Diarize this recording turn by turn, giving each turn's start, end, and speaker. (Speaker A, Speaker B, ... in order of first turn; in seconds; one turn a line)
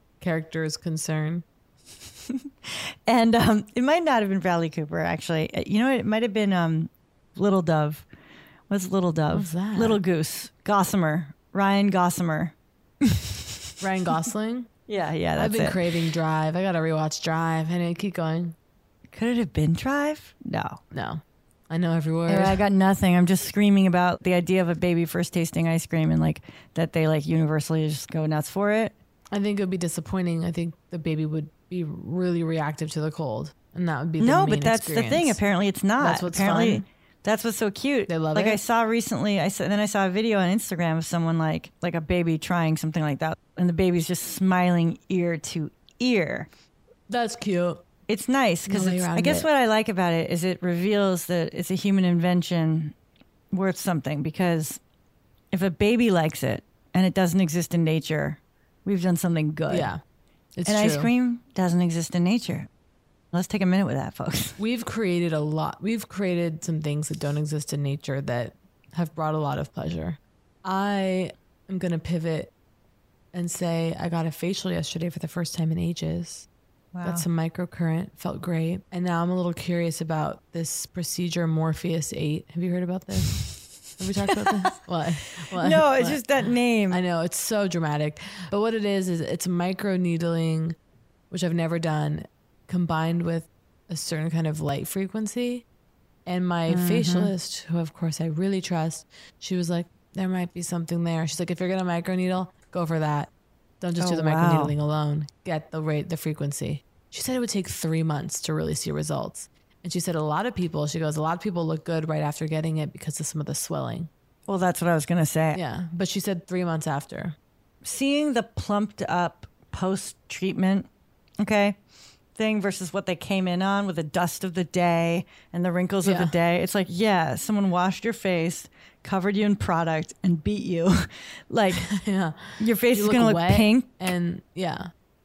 Speaker A: 0.2-1.4
Speaker B: 2.3-8.1
Speaker B: 8.7-13.7
Speaker A: 9.3-10.0
Speaker A: 13.8-14.7
Speaker B: 14.9-15.8
Speaker A: 15.4-18.5
Speaker B: 19.1-20.8
Speaker A: 20.9-22.6
Speaker B: 22.3-28.9
Speaker A: 29.3-35.4
Speaker B: 34.2-46.5
Speaker A: 36.0-36.9
Speaker A: 38.1-38.6
Speaker A: 47.1-47.8
Speaker B: 48.1-52.9
Speaker A: 48.7-49.5
Speaker B: 53.5-54.8
Speaker B: 55.5-59.9
Speaker A: 59.7-60.0
Speaker A: 60.6-61.1
Speaker B: 60.6-62.7
Speaker B: 63.3-64.6
Speaker A: 64.6-72.5
Speaker A: 73.3-76.5
Speaker B: 76.9-77.2
Speaker A: 77.0-86.2
Speaker B: 84.2-84.8
Speaker B: 85.5-87.0
Speaker A: 86.9-90.8
Speaker A: 91.3-95.6
Speaker A: 96.2-114.1
Speaker B: 96.7-97.3
Speaker B: 104.0-104.7
Speaker B: 114.5-115.6
Speaker A: 115.5-117.3
Speaker B: 117.8-120.9
Speaker B: 121.4-121.8
Speaker B: 122.3-131.9
Speaker A: 126.0-126.3
Speaker A: 131.9-134.9
Speaker B: 132.6-133.9